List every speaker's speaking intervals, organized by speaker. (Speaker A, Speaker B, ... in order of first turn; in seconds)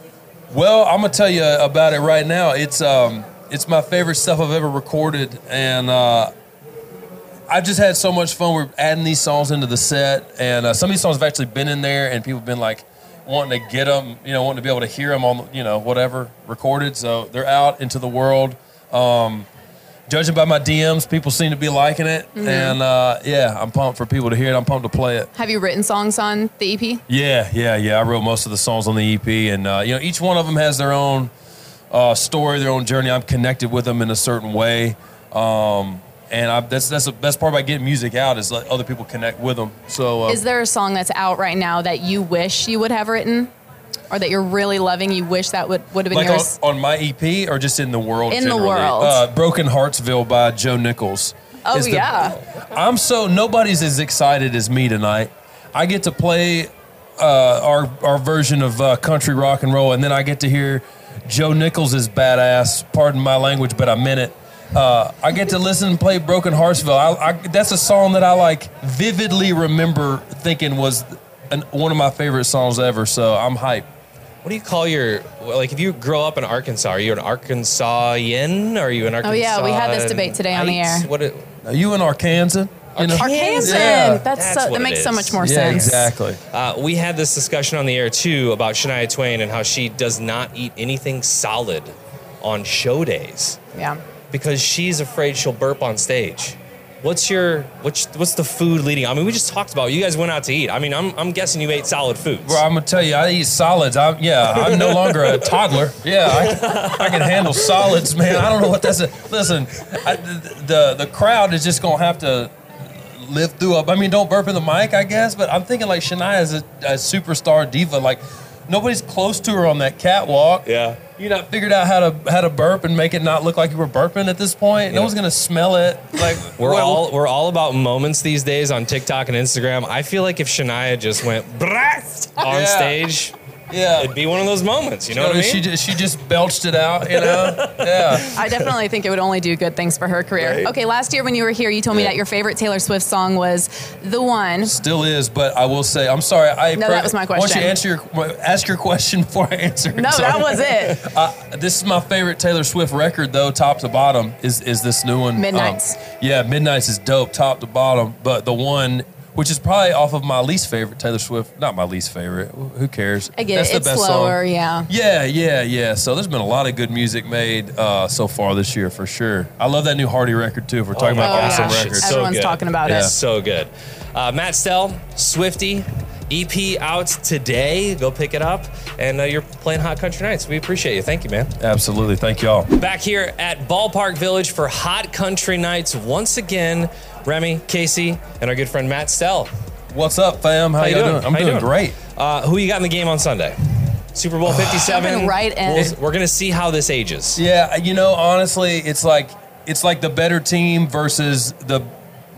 Speaker A: 0.5-6.3, 7.5-19.5, 20.1-25.3, 27.1-31.3, 31.9-40.4, 46.1-73.9, 81.6-84.2, 85.4-86.4, 102.4-127.1, 132.4-133.0, 133.7-134.1, 135.1-138.4, 144.6-172.2, 172.8-173.2, 181.6-182.7, 189.9-192.0, 194.4-194.9, 197.3-201.9
Speaker B: 22.3-22.8, 25.3-27.0, 40.3-43.5, 44.1-46.6, 48.3-49.2, 51.6-52.4, 79.2-81.1, 83.2-86.1, 93.7-94.0, 138.3-144.7, 146.7-147.8, 149.9-151.0, 155.3-156.0, 163.3-164.9, 171.2-173.1, 194.8-196.0
Speaker C: 74.4-81.5, 82.9-86.0, 86.5-93.6, 94.3-102.6, 104.5-105.5, 106.3-108.0, 120.7-121.0, 126.5-133.3, 133.9-135.7, 137.1-138.7, 140.4-140.7, 170.9-181.5, 182.8-189.5, 190.8-197.4